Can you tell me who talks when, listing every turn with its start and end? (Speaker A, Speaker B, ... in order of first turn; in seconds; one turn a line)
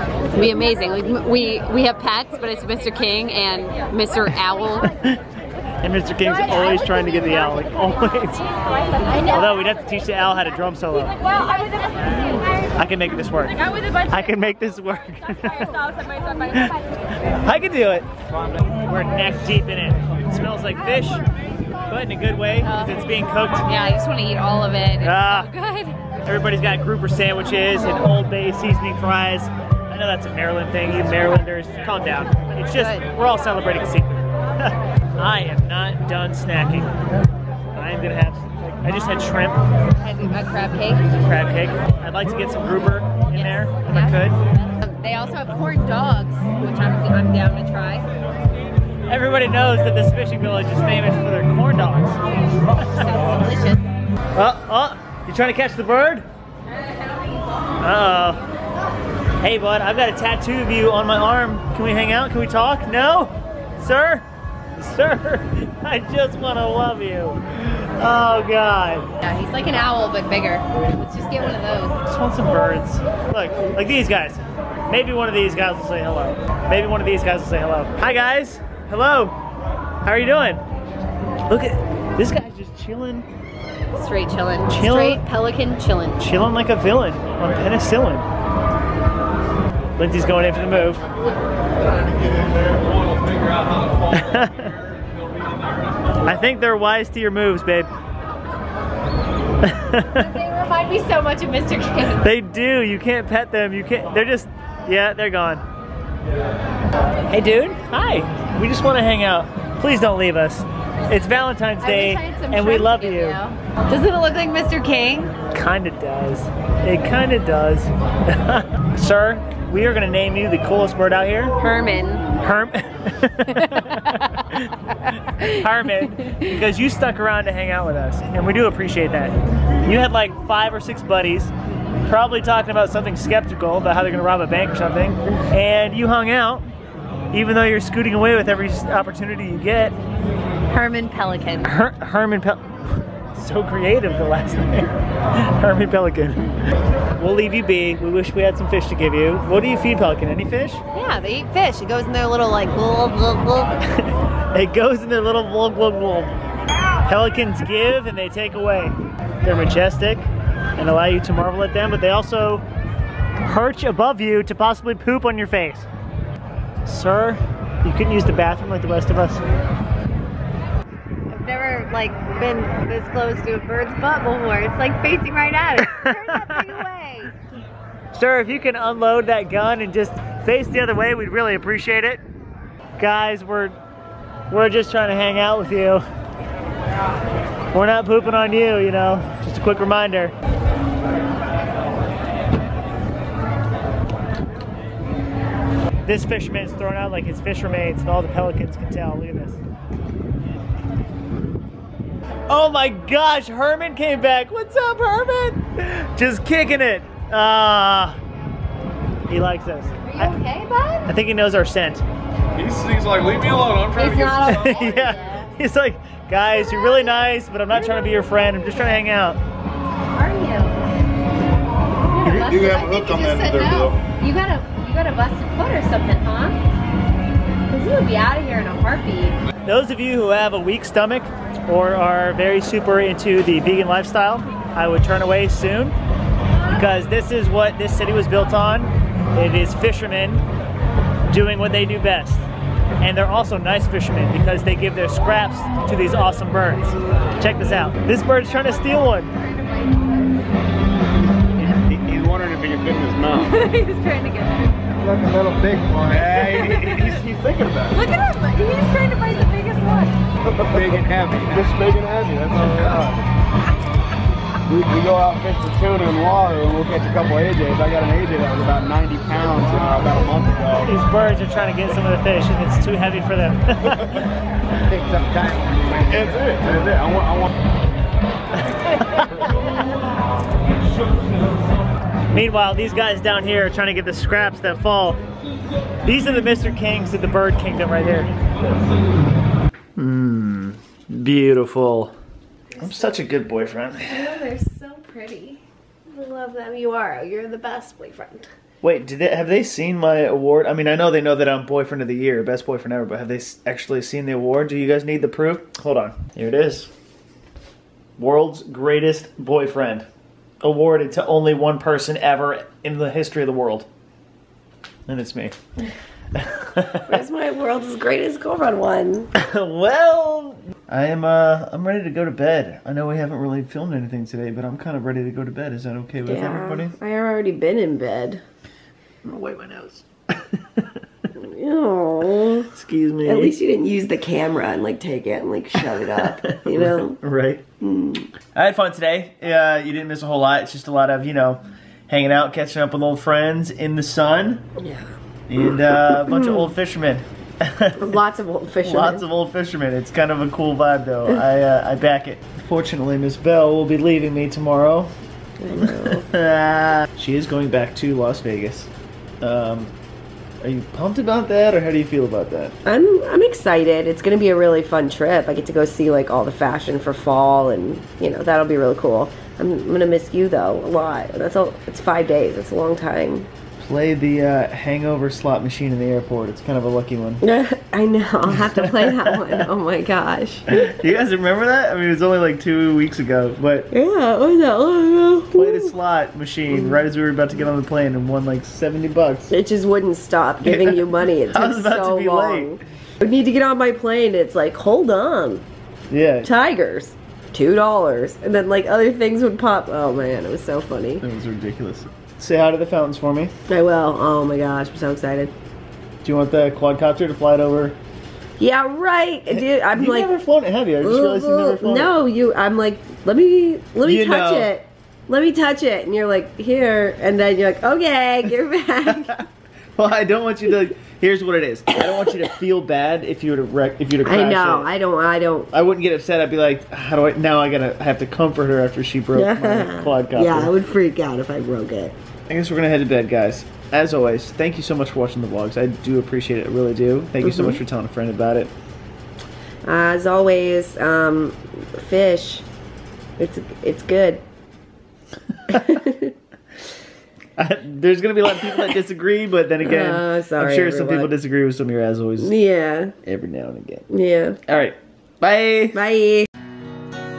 Speaker A: 0.3-5.0
Speaker B: 5.8-8.4
Speaker A: 9.1-9.4
Speaker B: 9.2-11.2
Speaker B: 12.1-15.7
Speaker B: 16.5-16.8
Speaker B: 17.4-18.1
Speaker B: 18.9-21.2
Speaker B: 21.9-23.7
Speaker A: 22.6-23.1
Speaker A: 23.6-26.0
Speaker B: 25.0-25.5
Speaker B: 26.2-37.0
Speaker A: 32.8-33.0
Speaker B: 37.7-39.6
Speaker A: 40.0-41.1
Speaker B: 41.2-44.4
Speaker A: 43.3-48.1
Speaker B: 49.1-52.2
Speaker A: 52.9-53.9
Speaker B: 54.4-56.2
Speaker B: 57.8-58.4
Speaker B: 59.4-64.2
Speaker B: 64.8-69.1
Speaker A: 69.2-72.0
Speaker B: 72.0-79.3
Speaker B: 80.0-80.6
Speaker B: 81.5-83.3
Speaker A: 84.0-86.2
Speaker B: 84.7-85.2
Speaker B: 86.2-88.3
Speaker B: 90.0-91.0
Speaker B: 94.1-94.7
Speaker B: 96.2-97.9
Speaker B: 99.6-100.3
Speaker A: 100.1-102.2
Speaker B: 102.2-105.6
Speaker B: 107.3-113.4
Speaker A: 111.8-115.3
Speaker B: 115.5-121.5
Speaker A: 121.6-122.3
Speaker B: 122.4-124.7
Speaker A: 123.5-124.2
Speaker B: 125.4-131.5
Speaker B: 132.0-136.7
Speaker B: 137.3-140.0
Speaker A: 140.7-141.7
Speaker B: 141.6-142.7
Speaker B: 143.3-146.5
Speaker B: 147.2-150.8
Speaker A: 150.9-153.7
Speaker B: 154.0-156.3
Speaker B: 157.1-162.6
Speaker B: 163.4-165.9
Speaker B: 166.9-169.4
Speaker A: 171.3-177.3
Speaker B: 175.8-176.8
Speaker B: 178.1-182.2
Speaker B: 183.0-183.8
Speaker B: 184.5-186.0
Speaker B: 187.7-190.3
Speaker B: 196.1-199.6
Speaker B: 202.5-208.2
Speaker B: 209.3-210.3
Speaker A: 210.1-211.1
Speaker B: 211.1-212.0
Speaker C: 212.6-214.8
Speaker A: 213.9-215.5
Speaker B: 214.2-219.4
Speaker A: 220.1-220.8
Speaker A: 222.1-226.6
Speaker D: 222.4-223.0
Speaker A: 227.7-229.4
Speaker B: 229.7-235.9
Speaker B: 236.7-240.4
Speaker B: 241.3-242.4
Speaker B: 243.0-249.3
Speaker D: 251.9-253.6
Speaker A: 253.5-254.7
Speaker D: 255.0-258.0
Speaker A: 256.4-257.2
Speaker A: 257.9-260.1
Speaker D: 260.5-263.2
Speaker D: 264.7-270.9
Speaker C: 269.7-270.0
Speaker B: 270.9-274.2
Speaker D: 274.9-277.5
Speaker B: 278.6-279.8
Speaker B: 282.3-285.2
Speaker B: 286.1-288.3
Speaker B: 290.0-292.1
Speaker B: 292.8-294.4
Speaker E: 294.3-295.2
Speaker A: 294.3-295.5
Speaker E: 296.1-298.5
Speaker B: 298.8-306.9
Speaker B: 308.2-310.1
Speaker B: 310.6-313.9
Speaker B: 315.1-315.6
Speaker B: 316.4-317.1
Speaker E: 317.0-319.3
Speaker B: 319.4-326.9
Speaker E: 326.2-328.4
Speaker B: 329.2-330.9
Speaker E: 331.4-332.7
Speaker B: 332.7-333.6
Speaker E: 333.2-337.2
Speaker B: 336.4-337.6
Speaker E: 337.8-338.3
Speaker B: 338.5-344.6
Speaker E: 344.8-345.1
Speaker B: 345.5-348.1
Speaker E: 346.3-346.7
Speaker E: 348.0-349.2
Speaker B: 348.8-355.1
Speaker E: 355.6-356.3
Speaker B: 355.7-358.9
Speaker B: 359.4-359.9
Speaker B: 360.6-362.8
Speaker E: 362.9-373.5
Speaker B: 373.8-377.4
Speaker E: 377.4-380.9
Speaker B: 378.6-379.6
Speaker B: 380.7-383.9
Speaker E: 383.9-385.9
Speaker B: 385.5-389.5
Speaker E: 386.7-387.0
Speaker E: 389.5-395.6
Speaker B: 390.7-392.7
Speaker B: 396.1-396.5
Speaker E: 396.4-401.2
Speaker B: 401.2-403.5
Speaker E: 403.7-405.5
Speaker B: 406.2-408.0
Speaker E: 408.6-410.4
Speaker B: 409.5-412.1
Speaker E: 411.0-419.4
Speaker B: 414.0-414.7
Speaker B: 419.1-419.4
Speaker B: 420.0-424.9
Speaker E: 424.2-425.7
Speaker B: 425.7-430.7
Speaker E: 429.4-432.1
Speaker B: 432.5-438.7
Speaker E: 437.4-437.8
Speaker E: 439.8-442.6
Speaker E: 443.4-444.4
Speaker E: 445.7-446.3
Speaker B: 447.6-452.5
Speaker E: 449.8-451.3
Speaker E: 452.4-453.1
Speaker B: 453.2-454.1
Speaker E: 454.1-454.6
Speaker B: 454.7-456.0
Speaker E: 455.9-456.5